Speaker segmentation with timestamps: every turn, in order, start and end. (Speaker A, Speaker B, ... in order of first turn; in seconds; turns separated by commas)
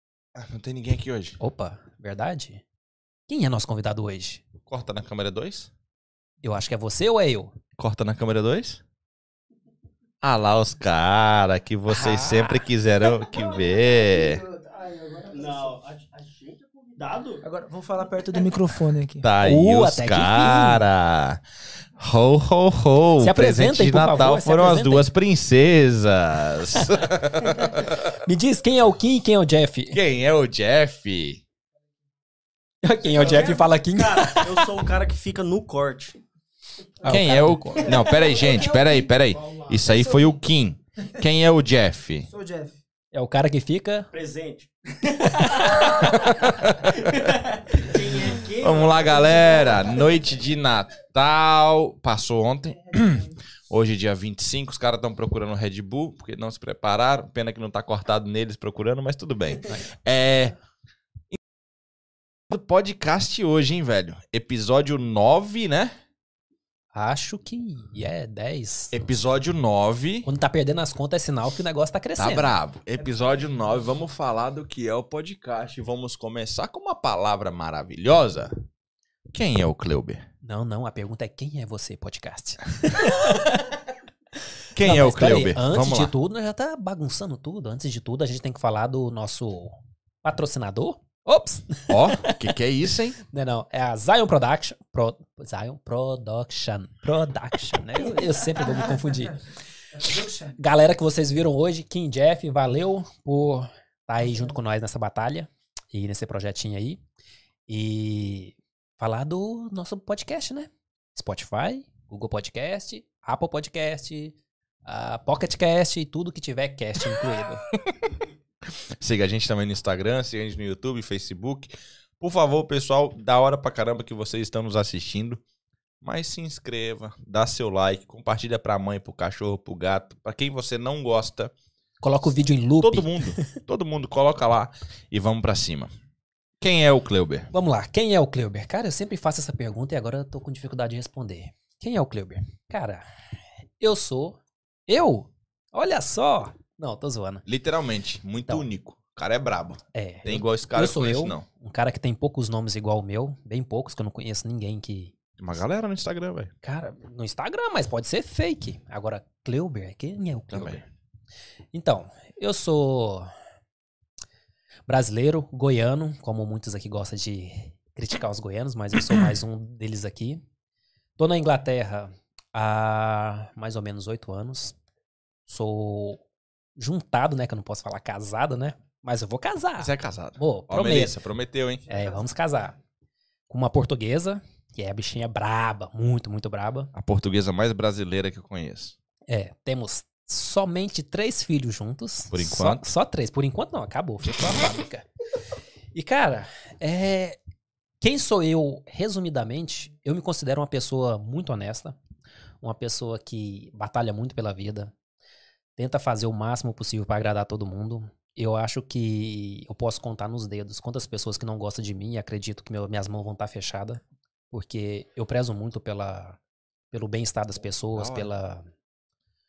Speaker A: 0.3-1.4, Speaker B: 1.4-2.6, Speaker B: 3.3-4.4, Speaker A: 4.7-5.7, Speaker B: 6.4-7.5, Speaker A: 7.8-8.8, Speaker A: 10.2-14.4, Speaker B: 11.9-12.6, Speaker C: 13.3-15.8, Speaker D: 15.3-17.4, Speaker C: 17.4-19.3, Speaker A: 19.2-21.4, Speaker B: 19.4-20.8, Speaker A: 22.0-28.0, Speaker B: 23.2-25.1, Speaker B: 28.2-30.0, Speaker A: 29.9-31.4, Speaker B: 32.8-34.7, Speaker C: 33.2-33.5, Speaker D: 33.2-36.2, Speaker B: 37.0-38.1, Speaker A: 37.1-42.3, Speaker C: 37.8-40.3, Speaker C: 42.3-42.8, Speaker B: 43.1-44.1, Speaker D: 44.1-46.2, Speaker A: 46.0-47.3, Speaker D: 46.9-49.8, Speaker A: 48.6-60.5, Speaker A: 62.5-65.9, Speaker B: 66.9-69.1, Speaker A: 68.9-70.3, Speaker B: 70.2-72.5, Speaker A: 72.2-78.6, Speaker A: 79.3-80.2, Speaker B: 80.4-83.5, Speaker A: 84.7-86.1, Speaker B: 84.8-92.5, Speaker A: 91.9-93.2, Speaker B: 93.3-100.0, Speaker C: 98.0-98.8, Speaker C: 99.9-100.6, Speaker B: 100.6-107.0, Speaker B: 107.7-117.7, Speaker A: 117.7-118.1, Speaker A: 118.7-125.4, Speaker A: 126.0-131.5, Speaker B: 132.0-133.6, Speaker A: 132.8-135.9, Speaker A: 136.6-137.5, Speaker B: 137.5-147.4, Speaker A: 147.4-151.4, Speaker B: 149.9-155.2, Speaker A: 155.4-156.5, Speaker B: 156.6-160.8, Speaker A: 160.5-160.8, Speaker B: 161.7-163.3, Speaker B: 164.9-170.4, Speaker B: 171.2-174.8, Speaker B: 175.5-176.2, Speaker B: 176.8-181.2, Speaker A: 179.8-181.8, Speaker B: 181.9-182.8, Speaker B: 183.5-186.9, Speaker A: 186.9-188.9, Speaker B: 189.3-195.1, Speaker A: 192.3-192.9, Speaker B: 195.9-197.4, Speaker B: 198.0-202.0, Speaker B: 202.6-204.9, Speaker B: 205.8-216.4, Speaker B: 216.9-218.7, Speaker A: 217.6-218.3